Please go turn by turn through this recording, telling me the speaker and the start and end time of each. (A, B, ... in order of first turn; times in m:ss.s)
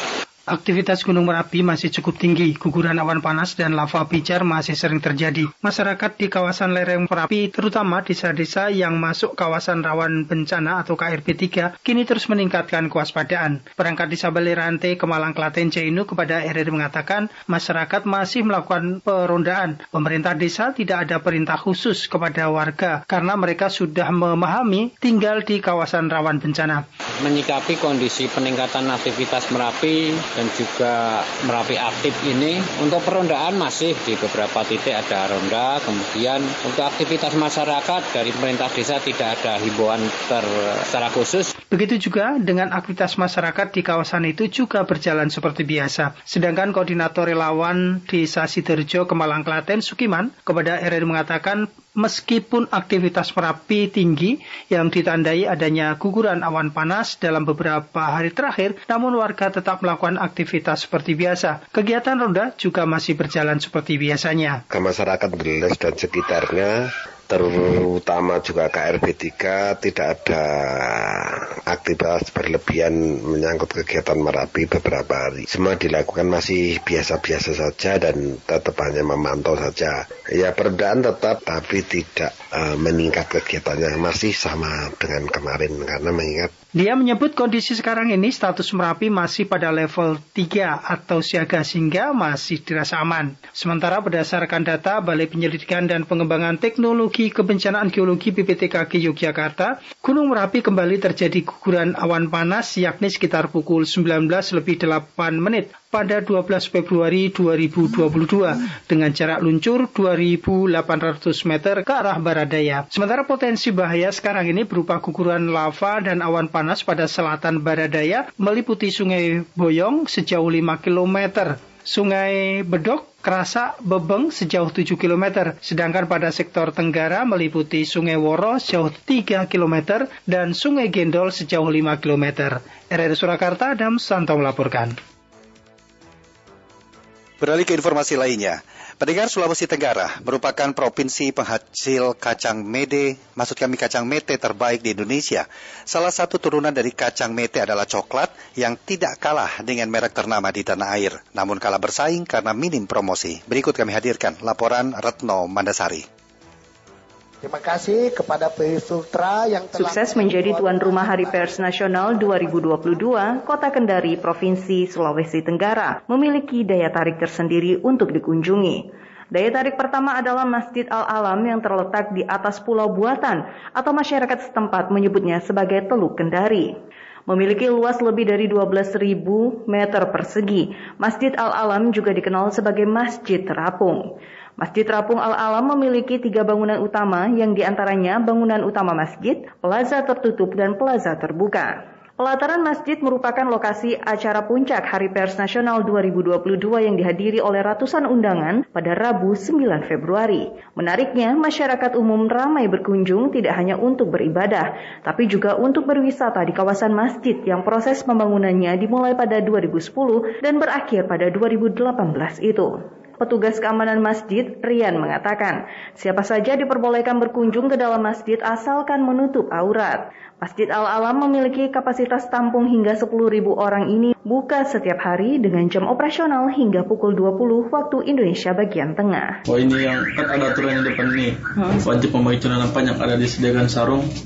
0:00.5-0:26.8 A
0:27.2-0:41.5 B
0:41.7-1:04.6 A
1:04.7-1:26.5 C
1:26.8-2:14.9 A
2:17.4-2:36.1 D
2:37.4-2:41.5 E
2:39.8-2:56.7 F
2:57.3-3:04.1 F
3:04.6-3:49.4 F
3:49.6-3:51.3 G
3:51.9-3:54.0 G